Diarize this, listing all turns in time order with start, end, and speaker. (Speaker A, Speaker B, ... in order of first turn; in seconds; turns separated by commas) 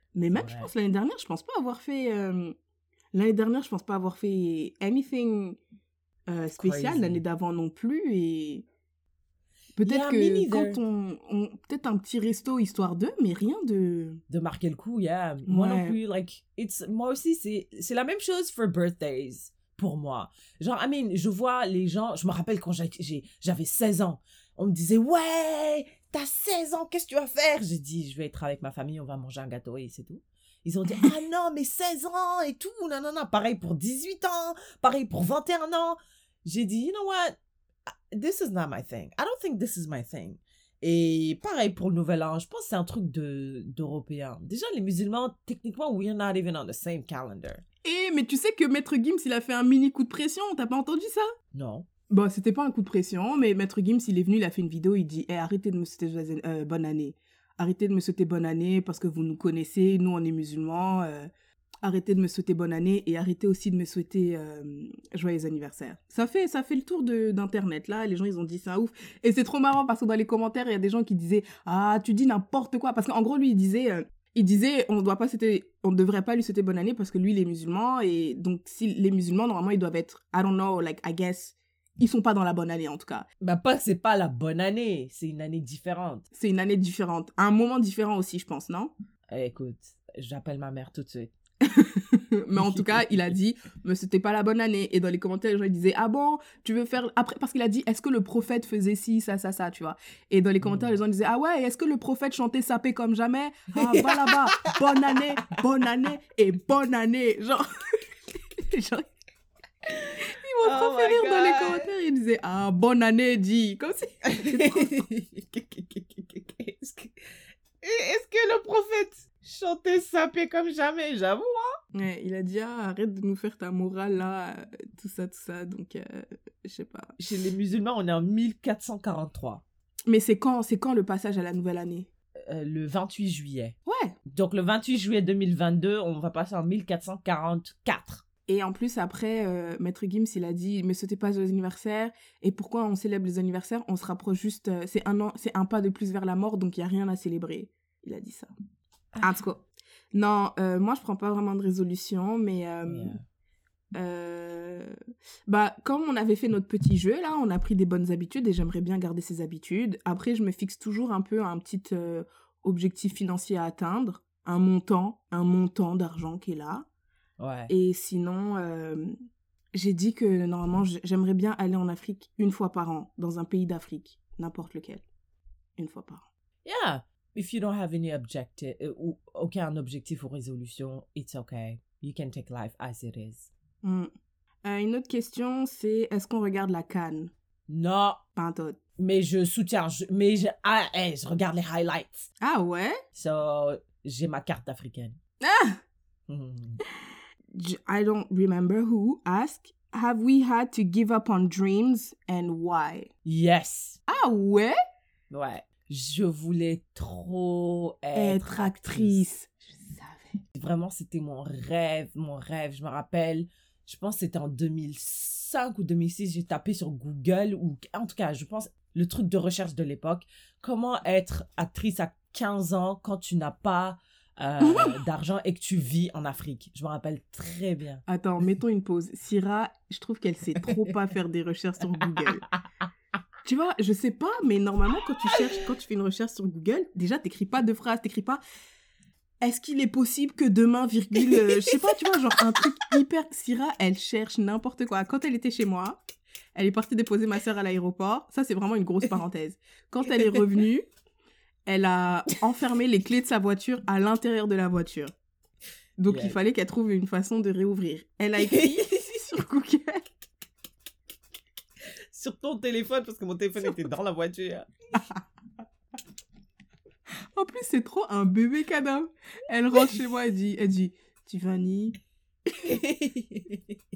Speaker A: 0.1-2.5, Speaker B: 0.3-0.7, Speaker A: 3.1-5.6, Speaker A: 6.3-8.7, Speaker B: 6.6-7.2, Speaker A: 9.8-14.2, Speaker B: 9.9-10.8, Speaker B: 14.3-37.4, Speaker A: 15.5-16.0, Speaker B: 38.1-47.6, Speaker A: 47.8-51.3, Speaker B: 51.5-51.9, Speaker A: 52.1-61.3, Speaker A: 61.8-83.3, Speaker B: 83.4-86.2, Speaker A: 86.3-88.9, Speaker B: 89.3-91.3, Speaker A: 91.6-108.0, Speaker B: 92.6-93.1, Speaker B: 103.7-104.8, Speaker A: 108.6-109.1, Speaker B: 109.9-111.9, Speaker A: 110.2-115.0, Speaker B: 114.3-117.1, Speaker B: 117.8-121.8, Speaker A: 121.9-127.2, Speaker B: 127.2-129.6, Speaker A: 130.1-132.1, Speaker B: 132.4-133.8, Speaker A: 133.9-134.1, Speaker B: 134.3-138.2, Speaker A: 138.5-148.5, Speaker A: 149.2-153.2, Speaker B: 152.9-153.2, Speaker A: 153.9-154.9, Speaker A: 155.5-166.9, Speaker B: 167.4-167.7, Speaker A: 167.7-169.1, Speaker A: 169.8-175.0, Speaker A: 175.8-176.3, Speaker B: 176.7-183.5, Speaker A: 183.8-184.1, Speaker A: 184.6-187.3, Speaker B: 187.7-188.2, Speaker A: 188.3-188.8, Speaker B: 189.0-192.3, Speaker A: 192.4-193.0, Speaker B: 193.2-195.2, Speaker A: 195.4-195.8, Speaker B: 196.3-196.8, Speaker A: 197.5-203.1, Speaker B: 203.2-204.0, Speaker A: 204.1-204.7, Speaker B: 205.3-209.2, Speaker A: 208.2-210.4, Speaker B: 210.6-228.0, Speaker A: 224.6-225.0, Speaker A: 228.1-232.4, Speaker A: 233.4-238.4, Speaker A: 239.4-246.0, Speaker A: 246.6-250.8, Speaker A: 251.7-255.1, Speaker A: 256.0-260.1, Speaker B: 256.1-256.4, Speaker B: 258.4-259.1, Speaker B: 262.1-264.7, Speaker A: 265.0-265.2, Speaker A: 267.3-272.0, Speaker B: 272.7-273.6